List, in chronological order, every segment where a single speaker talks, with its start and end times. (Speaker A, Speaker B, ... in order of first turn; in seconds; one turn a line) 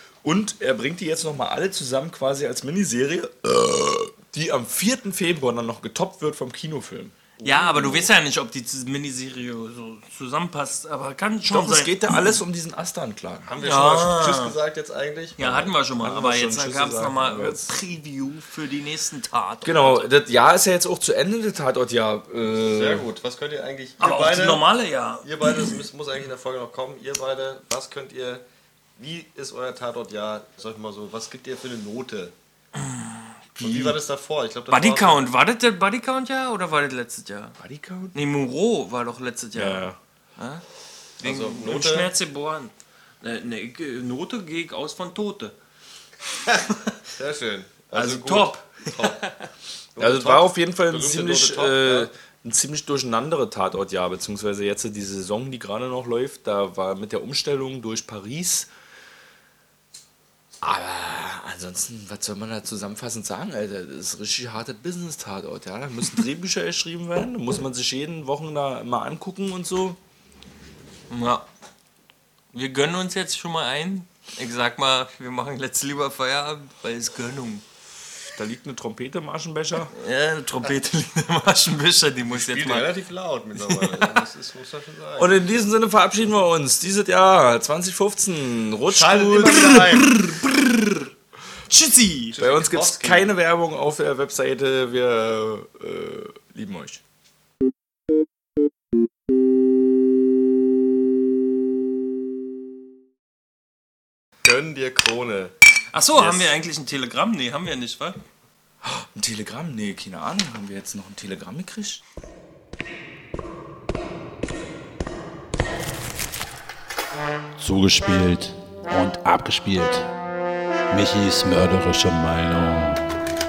Speaker A: 0.2-7.1
Speaker B: 7.4-8.1
Speaker C: 7.4-12.4
Speaker A: 11.5-13.5
Speaker B: 13.5-15.7
Speaker C: 13.6-14.5
Speaker C: 15.4-20.1
Speaker A: 16.0-17.8
Speaker A: 19.6-23.1
Speaker B: 22.6-24.6
Speaker C: 24.0-25.8
Speaker B: 25.2-28.4
Speaker B: 29.0-32.3
Speaker C: 32.8-33.2
Speaker B: 33.6-35.2
Speaker A: 33.6-33.9
Speaker C: 34.7-37.5
Speaker A: 37.6-38.1
Speaker C: 38.1-39.9
Speaker A: 39.5-40.0
Speaker C: 40.4-40.6
Speaker C: 41.2-45.5
Speaker B: 41.2-42.1
Speaker B: 47.1-49.2
Speaker C: 47.9-49.3
Speaker B: 49.9-52.1
Speaker A: 50.0-58.7
Speaker A: 60.6-70.0
Speaker C: 71.1-71.5
Speaker C: 72.5-77.6
Speaker A: 78.3-79.9
Speaker C: 79.9-82.9
Speaker B: 82.3-85.3
Speaker C: 83.5-84.2
Speaker A: 85.2-91.0
Speaker B: 88.9-90.1
Speaker C: 91.7-92.4
Speaker B: 92.3-93.3
Speaker A: 92.4-97.0
Speaker B: 104.4-105.5
Speaker C: 105.9-108.2
Speaker B: 106.2-106.5
Speaker A: 108.8-112.0
Speaker D: 117.6-120.1
Speaker D: 120.9-123.1